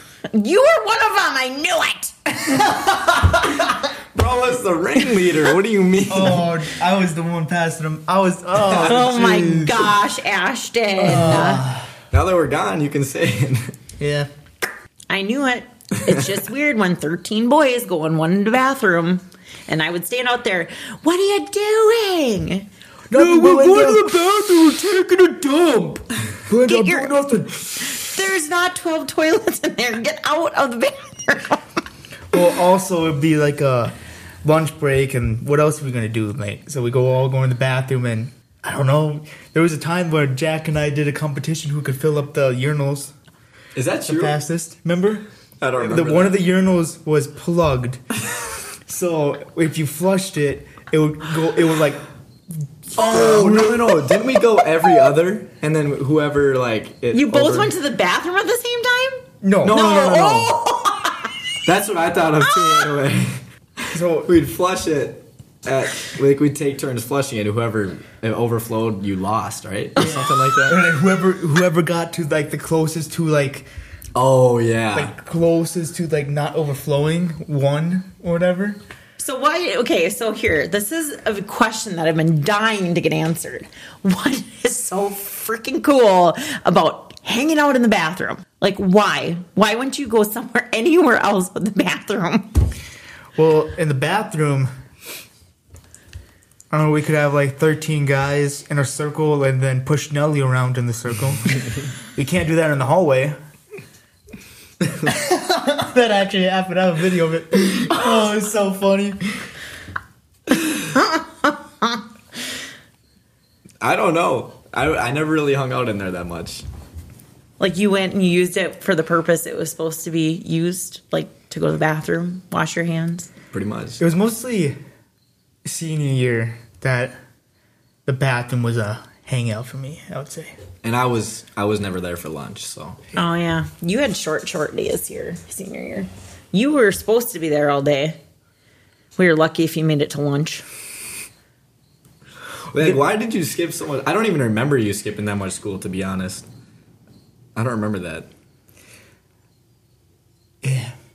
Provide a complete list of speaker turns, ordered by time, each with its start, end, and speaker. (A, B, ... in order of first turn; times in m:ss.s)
0:00.3-0:03.7 A
0:04.1-0:06.5 B
0:06.0-0:09.9 C
0:08.6-0:09.1 B
0:08.8-0:11.6 A
0:11.0-0:11.9 C
0:11.2-0:11.5 B
0:12.1-0:13.8 B
0:14.0-0:14.3 C
0:15.1-0:23.8 A
0:23.1-0:28.0 C
0:26.6-0:27.2 A
0:27.8-0:31.6 A
0:32.3-0:43.1 C
0:43.7-0:44.3 B
0:44.0-0:45.2 C
0:45.6-0:46.4 B
0:45.8-0:48.0 C
0:48.7-0:52.0 C
0:52.8-0:54.0 C
0:53.0-0:57.7 B
0:57.1-1:01.3 A
0:59.4-1:00.4 C
0:59.6-1:00.6 B
1:01.6-1:10.8 B
1:03.9-1:04.3 C
1:10.0-1:13.7 C
1:14.1-1:15.1 B
1:14.9-1:18.8 C
1:19.2-1:32.6 A
1:33.4-1:34.7 C
1:36.7-1:43.4 C
1:45.0-1:49.3 C
1:53.8-1:56.6 B
1:57.6-2:03.3 A
2:03.5-2:04.0 B
2:04.0-2:04.8 C
2:05.6-2:07.2 C
2:08.0-2:10.6 C
2:10.8-2:13.0 B
2:13.1-2:18.2 A
2:19.2-2:20.6 A
2:22.7-2:26.4 B
2:27.5-2:28.3 B
2:30.6-2:30.9 C